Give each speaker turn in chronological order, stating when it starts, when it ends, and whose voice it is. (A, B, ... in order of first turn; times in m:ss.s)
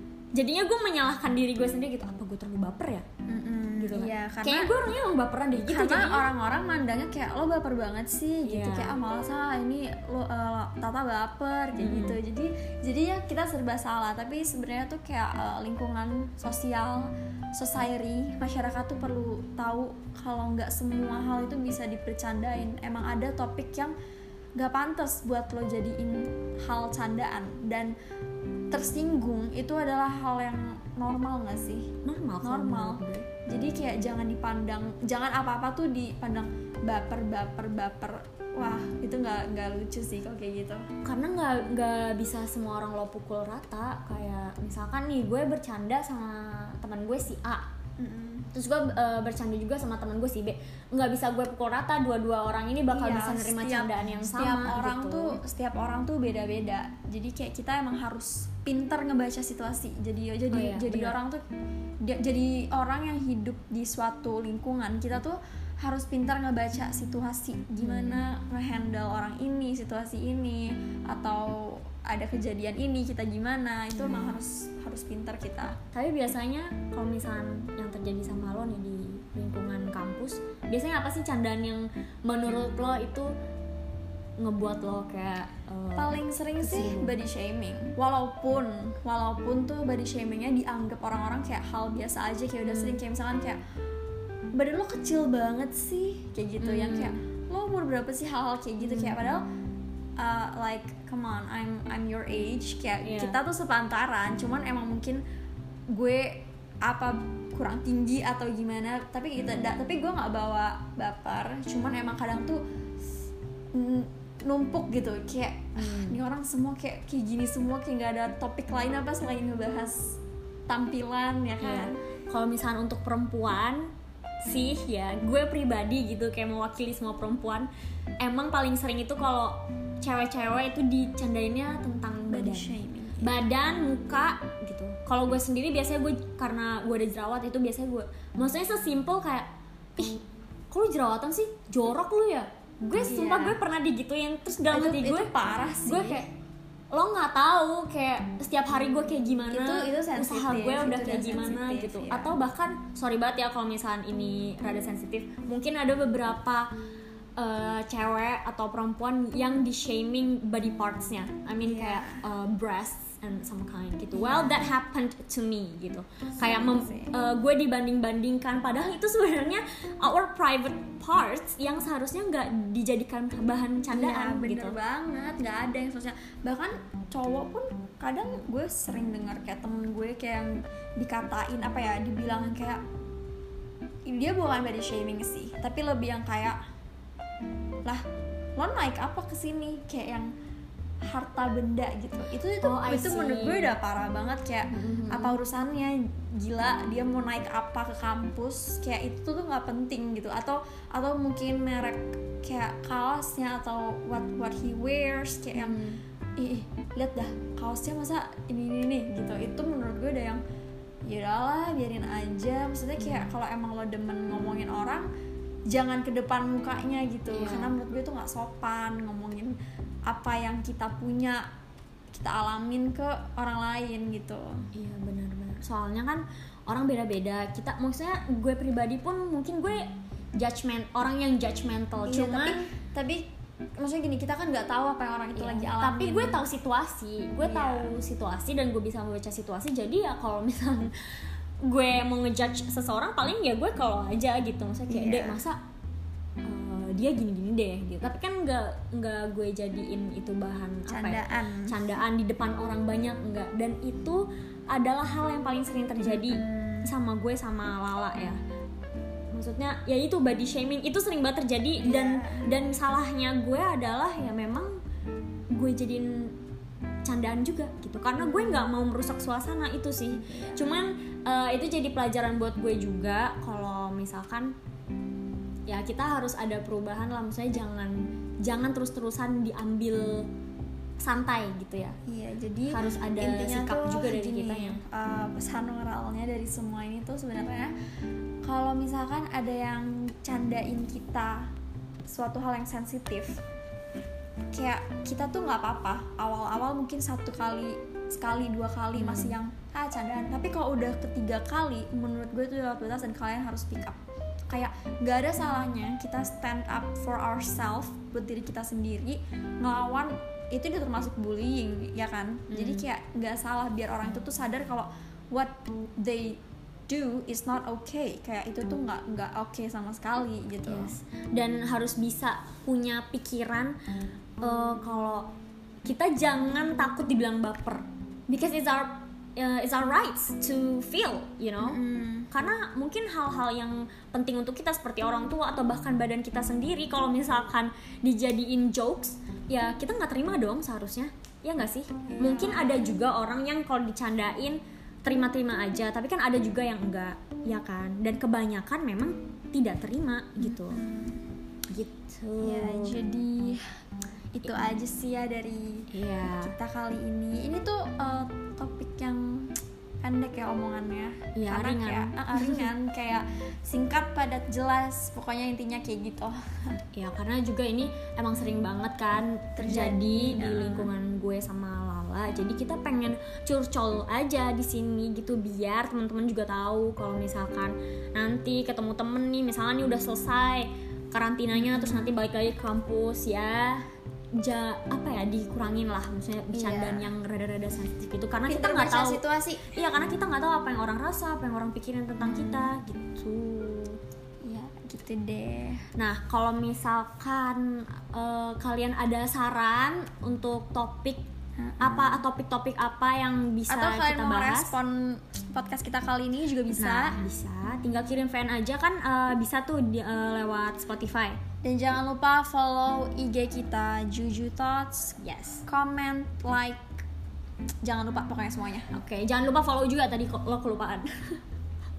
0:00.3-0:03.0 A
0:03.3-0:04.7 B
0:03.8-0:06.3 A
0:05.6-0:23.9 B
0:08.4-0:08.9 A
0:11.8-0:12.2 A
0:24.6-0:27.9 B
0:28.7-0:31.9 B
0:32.0-0:33.3 A
0:32.4-0:40.8 B
0:41.0-0:47.7 A
0:48.0-0:48.5 B
0:48.5-0:55.4 A
0:52.9-1:01.4 B
1:00.5-1:01.1 A
1:02.0-1:15.8 B
1:07.8-1:08.2 A
1:14.0-1:14.3 A
1:15.9-1:23.3 A
1:24.4-1:27.1 A
1:26.0-1:33.6 B
1:32.6-1:33.0 A
1:34.5-1:39.4 B
1:36.6-1:37.2 A
1:38.8-1:39.2 A
1:40.2-1:45.2 B
1:43.0-1:43.4 A
1:45.9-1:52.6 B
1:53.7-2:02.0 B
1:55.8-1:56.2 A
2:01.6-2:03.9 A
2:04.4-2:07.7 A
2:08.2-2:25.3 A
2:12.3-2:13.3 B
2:23.0-2:23.6 B
2:24.7-2:26.2 B
2:25.8-2:26.3 A
2:26.9-2:36.7 A
2:29.5-2:32.3 B
2:37.4-2:54.7 A
2:41.6-2:42.2 B
2:44.1-2:44.6 B
2:46.4-2:47.2 B
2:53.9-3:02.8 B
3:04.1-3:06.6 B
3:08.6-3:10.3 B
3:11.1-3:25.8 B
3:12.6-3:13.7 A
3:14.7-3:15.4 A
3:25.5-3:26.0 A
3:26.4-3:30.4 B
3:31.0-3:35.1 B
3:33.0-3:33.3 A
3:35.7-3:39.6 B
3:37.3-3:37.8 A
3:40.1-3:41.4 B
3:42.1-3:44.6 B
3:44.7-3:49.8 A
3:50.4-3:52.6 A
3:52.1-3:56.4 B
3:55.4-4:05.6 A
3:57.4-3:57.9 B
4:04.9-4:05.4 B
4:06.4-4:18.4 A
4:10.9-4:11.8 B
4:16.1-4:16.9 B
4:19.3-4:24.8 A
4:21.8-4:22.5 B
4:25.5-4:26.3 A
4:27.0-4:34.5 A
4:30.3-4:30.6 B
4:35.7-4:40.3 A
4:41.0-4:42.0 A
4:42.1-4:47.7 B
4:42.7-4:44.8 A
4:48.4-4:51.5 B
4:52.1-4:53.4 B
4:54.5-5:04.0 B
4:58.9-4:59.3 A
5:04.5-5:20.9 B
5:12.5-5:12.8 A
5:20.6-5:23.8 A
5:24.4-5:25.3 A
5:25.8-5:31.8 A
5:31.6-5:32.3 B
5:32.3-5:50.8 A
5:42.2-5:42.9 B
5:50.4-5:51.2 B
5:51.7-5:53.0 A
5:52.4-5:53.6 B
5:54.3-5:55.9 B
5:55.9-5:56.5 A
5:56.4-6:06.8 B
6:01.3-6:02.7 A
6:06.9-6:23.8 A
6:09.6-6:10.9 B
6:21.5-6:22.1 B
6:24.4-6:34.0 A
6:26.5-6:27.1 B
6:28.5-6:29.6 B
6:32.2-6:32.7 B
6:34.4-6:35.8 B
6:36.0-6:41.2 A
6:41.6-6:42.1 B
6:41.8-6:44.8 A
6:43.7-6:47.2 B
6:46.8-6:51.4 A
6:51.6-6:56.9 B
6:55.2-6:55.6 A
6:57.8-6:58.9 B
6:58.9-7:01.4 A